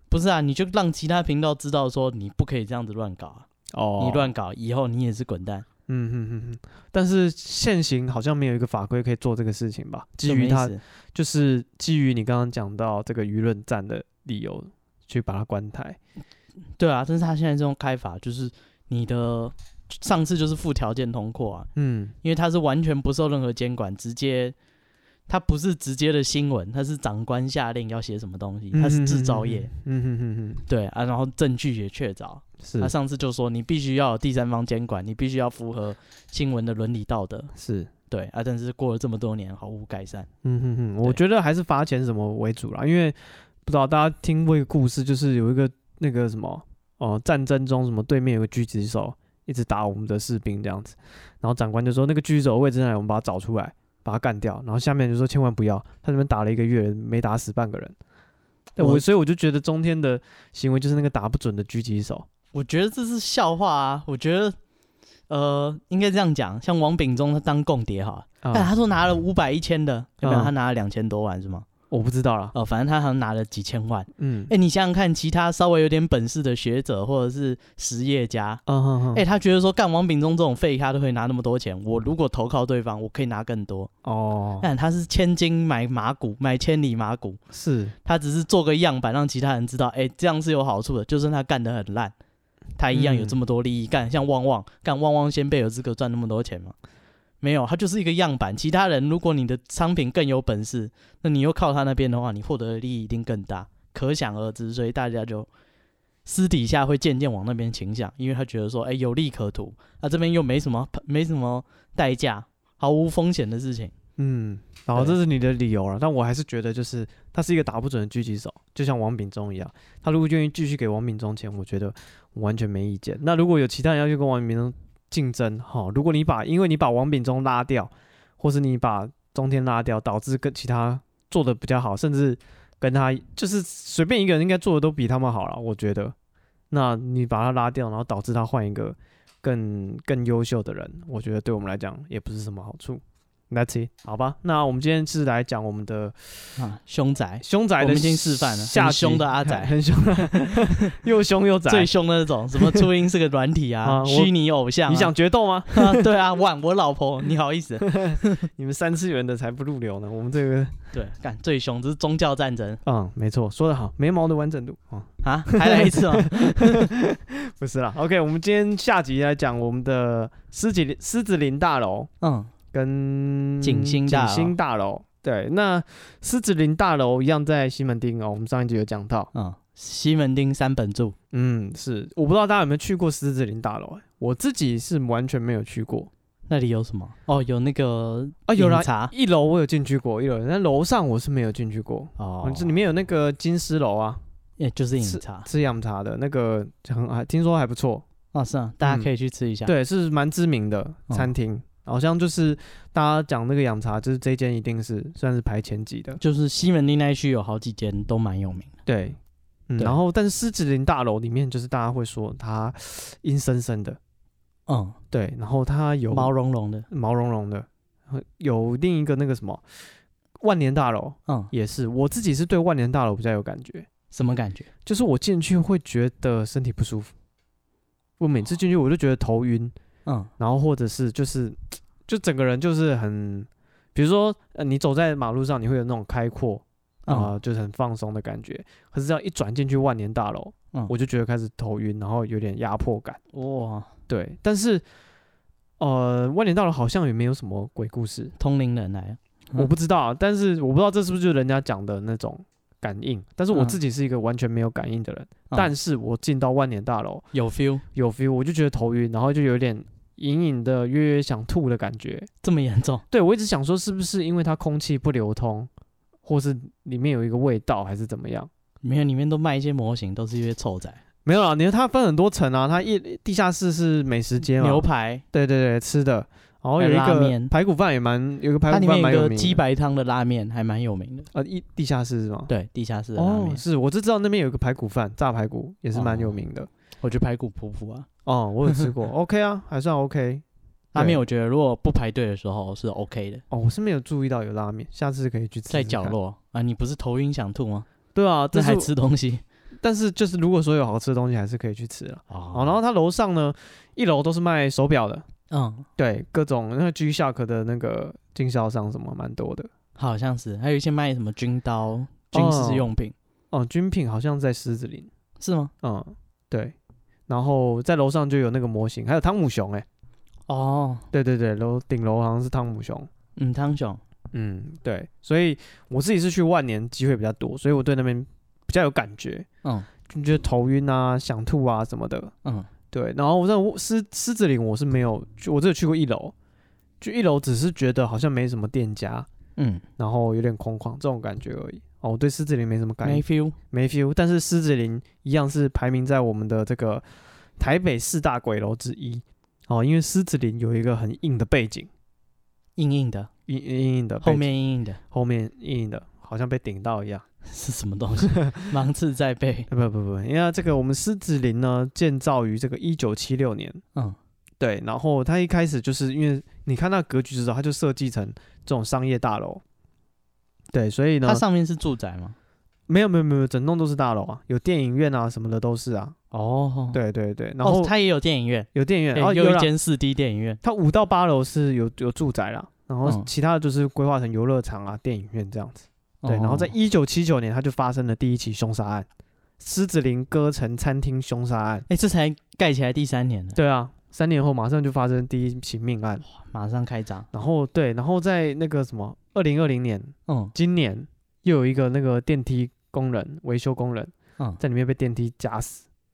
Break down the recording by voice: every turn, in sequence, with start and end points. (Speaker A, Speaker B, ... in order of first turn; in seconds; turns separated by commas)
Speaker A: 0.1-3.5, Speaker B: 3.7-4.3, Speaker A: 4.0-5.6, Speaker B: 5.9-16.0, Speaker A: 10.2-10.8, Speaker A: 16.8-21.7, Speaker B: 21.8-22.1, Speaker A: 22.2-24.5, Speaker A: 25.3-29.7, Speaker B: 28.7-30.6, Speaker A: 30.7-37.5, Speaker B: 32.6-32.9, Speaker B: 37.5-37.9, Speaker A: 38.1-40.3, Speaker B: 40.4-58.0, Speaker A: 58.8-59.0, Speaker B: 58.8-62.3, Speaker A: 62.5-64.5, Speaker A: 65.3-71.7, Speaker B: 68.4-68.7, Speaker B: 70.2-70.5, Speaker B: 71.9-72.5, Speaker A: 72.5-78.6, Speaker B: 74.2-74.5, Speaker B: 78.7-79.2, Speaker A: 79.1-83.9, Speaker B: 84.0-84.7, Speaker A: 84.6-87.4, Speaker B: 87.5-87.9, Speaker A: 88.0-92.1, Speaker A: 92.8-96.8, Speaker B: 92.9-93.4, Speaker A: 97.4-105.5, Speaker A: 106.2-113.9, Speaker B: 114.2-136.1, Speaker B: 136.7-146.6, Speaker A: 146.6-150.9, Speaker B: 147.4-151.9, Speaker A: 151.7-155.1, Speaker B: 152.5-152.9, Speaker B: 153.8-154.3, Speaker B: 154.9-156.1, Speaker A: 155.7-158.5, Speaker B: 157.8-160.9, Speaker A: 160.9-162.8, Speaker B: 162.8-172.1, Speaker A: 165.2-166.9, Speaker A: 172.2-172.5, Speaker B: 172.7-179.3, Speaker A: 173.6-174.6, Speaker A: 179.3-181.2, Speaker B: 181.3-186.1, Speaker A: 186.5-189.1, Speaker B: 188.5-194.2, Speaker A: 192.2-192.7, Speaker A: 194.6-195.5, Speaker B: 195.0-198.0, Speaker A: 198.3-199.7, Speaker B: 198.8-199.1, Speaker B: 199.7-206.2, Speaker A: 206.2-208.7, Speaker B: 208.8-209.2, Speaker B: 209.7-214.0, Speaker A: 214.7-215.0, Speaker B: 215.1-216.3, Speaker A: 216.1-216.9, Speaker B: 216.9-219.8, Speaker B: 220.4-223.9, Speaker A: 224.1-224.7, Speaker B: 224.8-227.1, Speaker B: 228.2-229.7, Speaker B: 230.4-243.2, Speaker A: 237.1-237.3, Speaker A: 243.3-243.9, Speaker B: 244.1-244.8, Speaker B: 245.8-248.3, Speaker A: 248.4-249.7, Speaker B: 249.6-257.3, Speaker A: 253.5-253.8, Speaker A: 257.3-257.8, Speaker B: 257.9-262.3, Speaker A: 262.4-263.0, Speaker B: 263.1-265.7, Speaker B: 266.2-268.5, Speaker A: 268.8-271.0, Speaker B: 271.2-279.6, Speaker A: 274.6-275.2, Speaker A: 276.8-277.5, Speaker A: 278.7-281.3, Speaker B: 281.3-282.5, Speaker A: 282.5-283.6, Speaker B: 283.1-286.7, Speaker A: 285.9-286.4, Speaker A: 287.0-288.1, Speaker B: 288.2-290.4, Speaker A: 290.9-293.4, Speaker B: 290.9-291.2, Speaker B: 293.5-296.1, Speaker A: 295.7-297.9, Speaker B: 298.1-298.9, Speaker A: 298.5-299.4, Speaker B: 299.8-305.2, Speaker A: 302.3-302.8, Speaker A: 305.5-305.9, Speaker B: 306.0-309.7, Speaker A: 309.9-313.1, Speaker B: 312.3-312.9, Speaker B: 313.5-315.1, Speaker A: 315.4-315.7, Speaker B: 315.8-316.7, Speaker B: 317.3-319.8, Speaker A: 320.5-321.1, Speaker B: 321.1-323.1, Speaker A: 323.4-324.0, Speaker B: 324.3-329.5, Speaker B: 330.1-332.3, Speaker B: 332.9-336.3, Speaker B: 337.0-339.3, Speaker A: 339.6-339.8, Speaker B: 340.0-347.0, Speaker A: 343.0-343.6, Speaker B: 347.6-351.9, Speaker A: 352.8-353.3, Speaker B: 353.5-354.5, Speaker A: 354.2-355.0, Speaker B: 355.1-357.2, Speaker A: 357.4-359.7, Speaker B: 358.2-358.7, Speaker B: 359.7-363.8, Speaker B: 364.6-369.6, Speaker B: 370.7-371.4, Speaker A: 371.2-372.4, Speaker B: 372.9-376.1, Speaker A: 376.3-377.0, Speaker B: 376.9-377.9, Speaker A: 377.6-380.6, Speaker B: 378.7-379.7, Speaker B: 380.6-389.1, Speaker A: 386.2-386.7, Speaker B: 389.6-391.9, Speaker A: 391.9-393.6, Speaker B: 393.5-396.2, Speaker A: 396.3-397.3, Speaker B: 397.3-405.8, Speaker A: 400.3-400.5